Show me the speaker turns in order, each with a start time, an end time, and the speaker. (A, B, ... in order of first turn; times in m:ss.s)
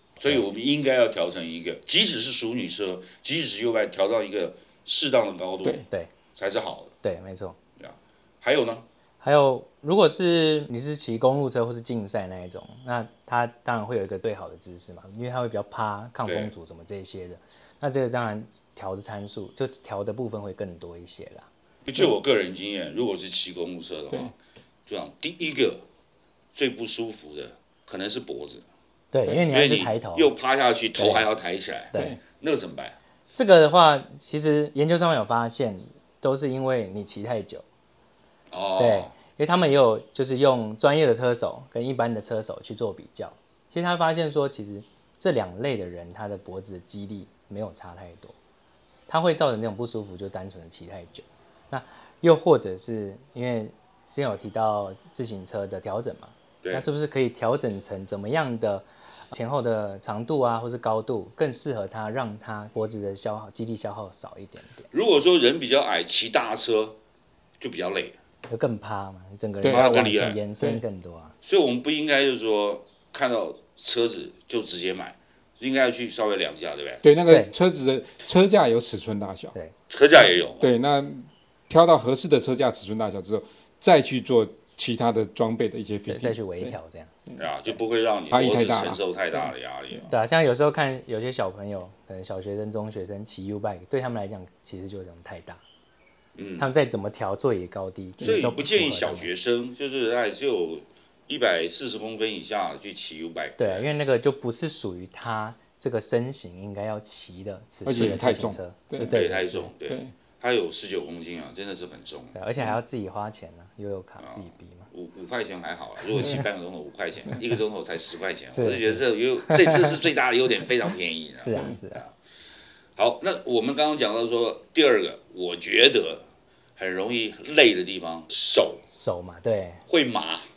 0:00.2-0:05.8 A
0:06.4-0:06.9 A
0:07.0-0:07.6 B
0:07.8-0:08.8 A
0:09.2-0:21.5 B
0:16.2-0:16.5 A
0:21.8-0:24.3 A
0:24.9-0:25.8 A
0:26.5-0:28.6 A
0:29.1-0:30.3 B
0:29.5-0:33.0 A
0:31.0-0:31.3 B
0:31.9-0:32.2 B
0:33.3-0:37.6 B
0:38.5-0:39.1 A
0:38.8-0:48.4 B
0:49.1-1:04.9 B
1:04.9-1:07.0 A
1:07.6-1:08.1 A
1:08.5-1:11.3 B
1:09.6-1:09.9 C
1:09.6-1:10.4 A
1:11.4-1:17.0 A
1:17.0-1:19.5 C
1:17.2-1:17.5 B
1:19.9-1:20.7 A
1:20.6-1:26.7 C
1:26.1-1:27.2 B
1:27.4-1:30.1 A
1:28.3-1:29.0 C
1:30.1-1:35.6 B
1:36.4-1:36.7 A
1:36.6-1:39.3 B
1:38.2-1:38.5 C
1:38.2-1:43.9 A
1:43.6-1:49.7 B
1:47.8-1:49.2 C
1:49.1-1:52.7 A
1:49.8-1:50.1 C
1:52.3-1:54.9 B
1:54.2-2:02.1 A
1:58.5-1:59.8 B
2:01.4-2:02.0 B
2:03.0-2:06.2 A
2:06.8-2:08.8 A
2:08.9-2:09.8 B
2:09.9-2:10.5 A